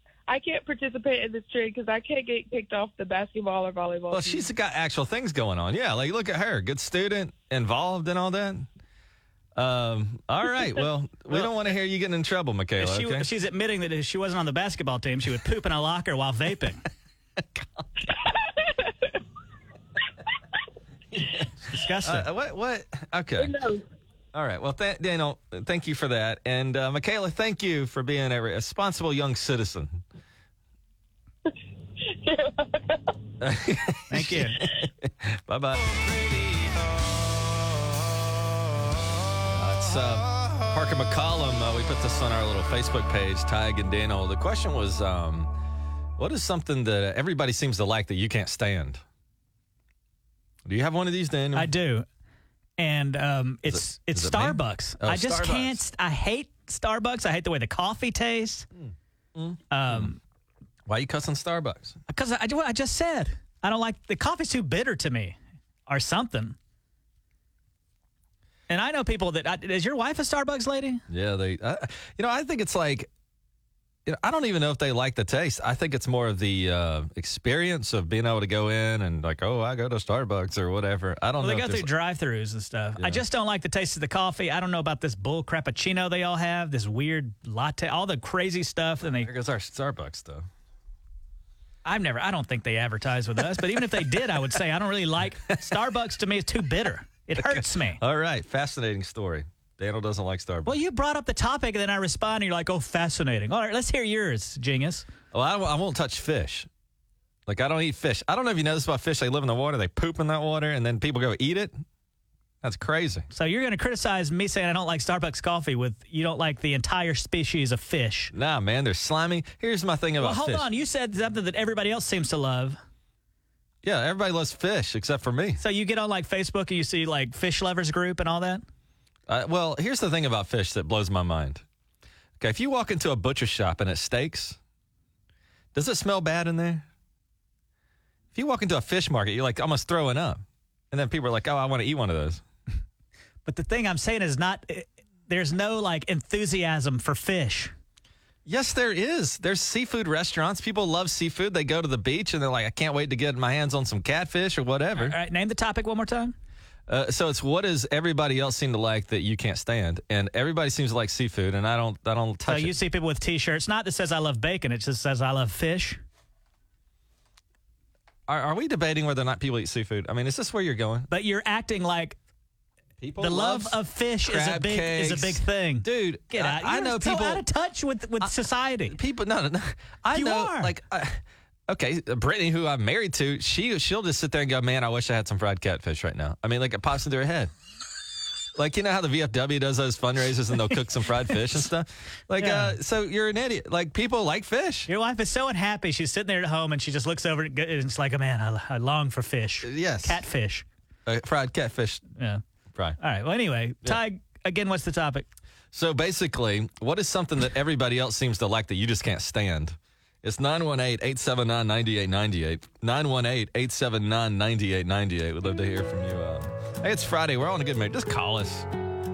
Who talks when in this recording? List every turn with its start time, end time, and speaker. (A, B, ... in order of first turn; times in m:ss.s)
0:00.3-0:04.5 A
0:04.1-0:08.7 B
0:09.6-0:13.3 B
0:12.8-0:16.8 C
0:17.6-0:17.8 B
0:18.3-0:19.1 A
0:21.1-0:21.4 B
0:21.6-0:22.3 C
0:22.0-0:23.6 B
0:23.4-0:23.8 A
0:24.3-0:30.0 B
0:32.1-0:33.1 A
0:33.4-0:36.5 B
0:34.1-0:34.6 C
0:39.4-0:45.6 B
0:46.2-0:49.0 B
0:50.6-0:51.7 B
0:51.5-0:52.1 C
0:52.8-0:58.7 C
0:53.6-0:55.8 B
0:58.8-1:00.1 B
0:59.7-1:00.2 C
1:00.9-1:02.0 B
1:02.1-1:06.6 C
1:08.7-1:11.0 C
1:11.1-1:13.1 B
1:14.1-1:21.9 B
1:21.4-1:29.3 C
1:23.0-1:23.2 B
1:29.1-1:30.5 B
1:31.8-1:38.0 C
1:33.5-1:34.2 B
1:37.4-1:40.8 B
1:40.6-1:45.1 C
1:45.3-1:46.7 B
1:47.5-1:51.8 B
1:52.6-1:53.3 B
1:53.3-1:58.3 C
1:58.3-2:00.7 B
2:00.2-2:02.8 C
2:03.8-2:05.6 B
2:05.6-2:08.6 C
2:09.3-2:11.6 B
2:12.4-2:14.6 B
2:15.7-2:16.9 B
2:18.3-2:22.4 B
2:23.4-2:27.7 C
2:28.4-2:35.2 B
2:35.0-2:36.4 C
2:36.9-2:42.7 B
2:42.4-2:46.0 C
2:48.3-2:51.1 B
2:51.1-2:52.2 C
2:53.0-2:57.4 B
2:53.2-2:59.0 C
2:58.9-3:07.5 B
3:00.1-3:00.7 C
3:08.6-3:14.9 B
3:12.4-3:12.8 C
3:14.9-3:20.6 C
3:19.6-3:20.2 B
3:21.1-3:22.0 B
3:22.2-3:22.4 C
3:23.0-3:25.3 C
3:25.7-3:38.7 B